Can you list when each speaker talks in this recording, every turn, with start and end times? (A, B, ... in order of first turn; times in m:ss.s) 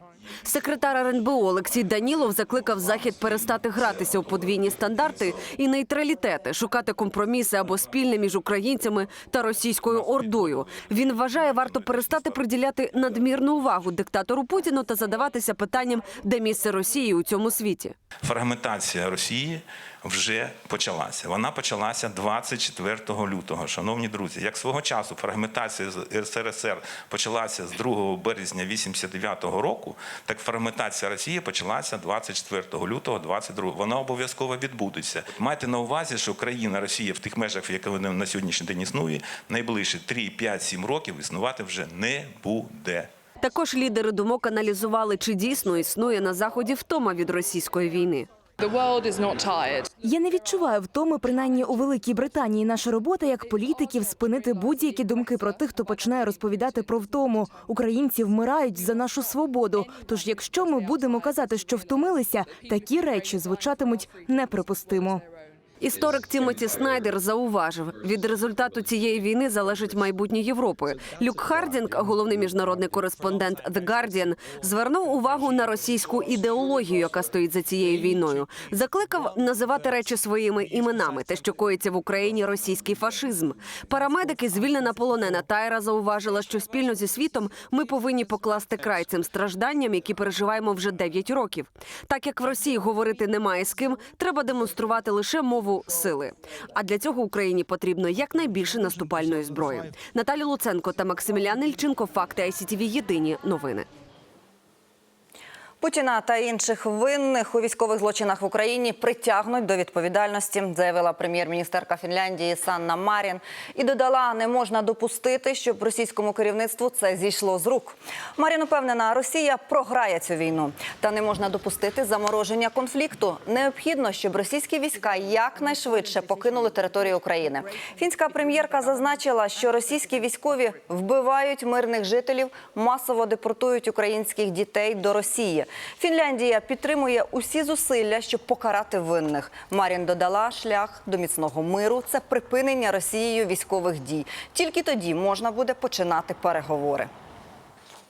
0:00.4-0:18.0 A
0:18.9-0:19.6 B
0:20.1-0:24.5 B
0:25.1-0:28.2 B
0:29.9-0:31.6 B
0:32.3-0:38.4 B
0:39.3-0:43.1 B
0:43.4-0:48.3 A
0:50.0-1:05.2 C
1:05.8-1:43.9 A
1:45.8-2:27.1 D